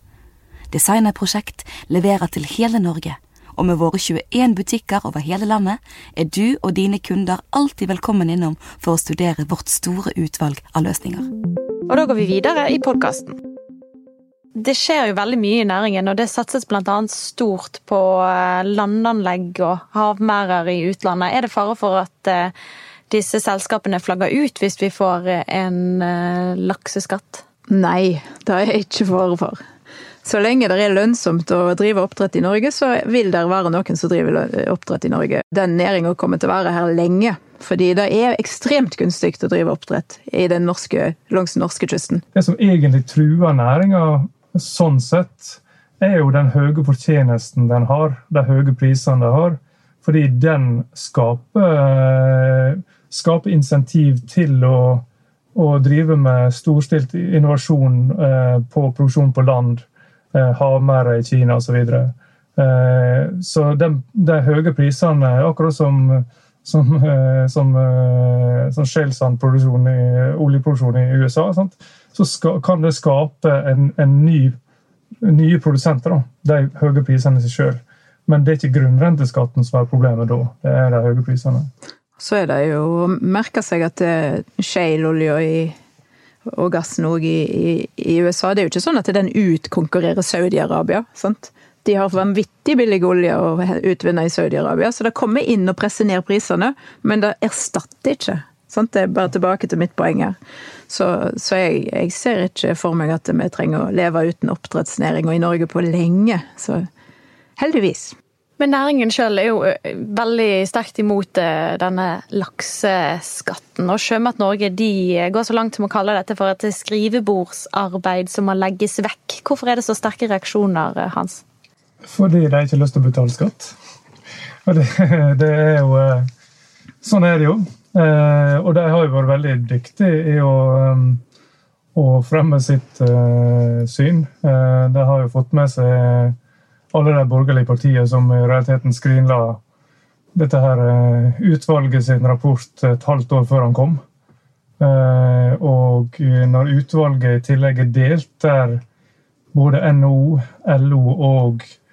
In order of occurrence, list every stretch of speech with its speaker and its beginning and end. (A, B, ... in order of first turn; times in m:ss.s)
0:00.7-0:11.3 A
0:11.9-0:13.4 B
0:14.5-0:22.5 B
0:23.1-0:27.4 B
0:27.7-0:29.6 C
0:30.2-0:42.2 C
0:42.3-1:14.6 D
1:15.2-1:21.7 D
1:22.2-1:25.7 C
1:26.5-1:40.4 C
1:40.9-1:46.9 C
1:47.6-1:48.2 C
1:48.6-2:01.4 B
2:02.0-2:03.7 D
2:04.6-2:06.3 D
2:07.0-2:11.2 D
2:11.9-2:16.4 D
2:16.9-2:19.6 D
2:20.3-2:24.0 D
2:24.8-2:28.8 D
2:29.5-2:31.6 D